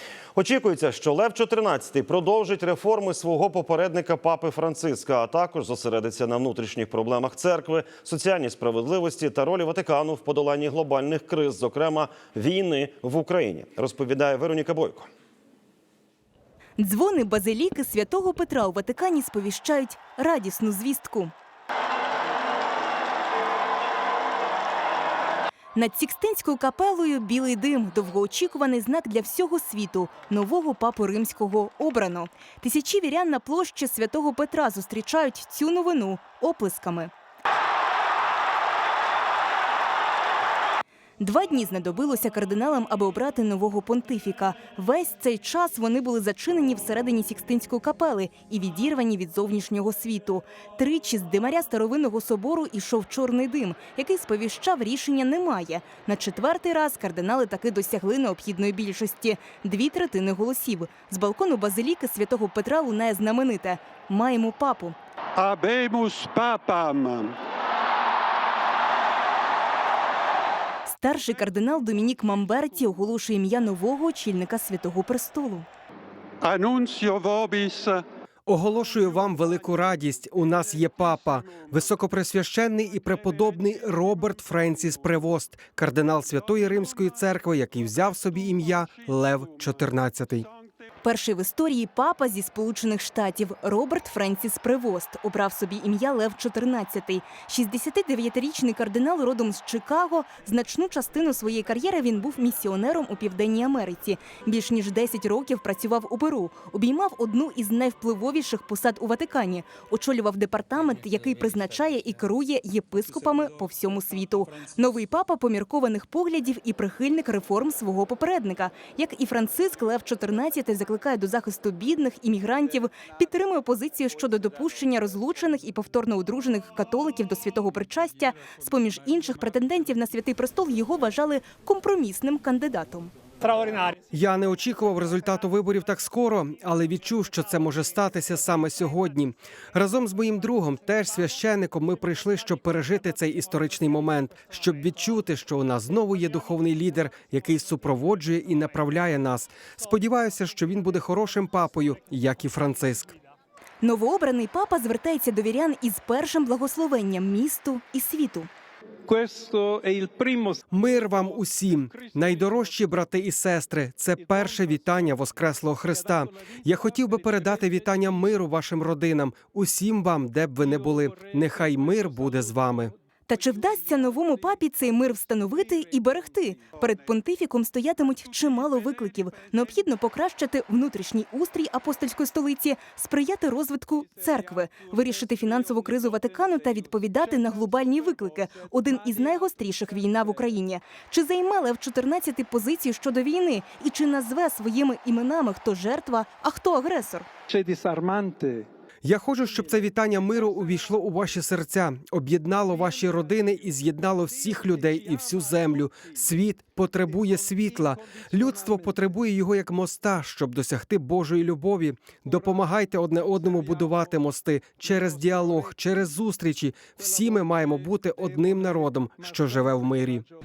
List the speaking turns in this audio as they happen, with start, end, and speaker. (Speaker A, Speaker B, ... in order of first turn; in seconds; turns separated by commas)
Speaker A: 0.3-15.1, Speaker B: 16.8-21.3, Speaker B: 25.7-37.1, Speaker B: 41.2-65.0, Speaker C: 65.4-67.3, Speaker B: 70.9-75.7, Speaker C: 76.4-78.0, Speaker D: 78.5-90.5, Speaker B: 91.0-133.1, Speaker C: 133.4-133.9, Speaker D: 134.1-153.1, Speaker B: 153.8-158.5, Speaker C: 159.1-160.6, Speaker D: 160.7-172.9, Speaker B: 173.3-197.3, Speaker C: 197.5-198.6, Speaker D: 199.0-220.2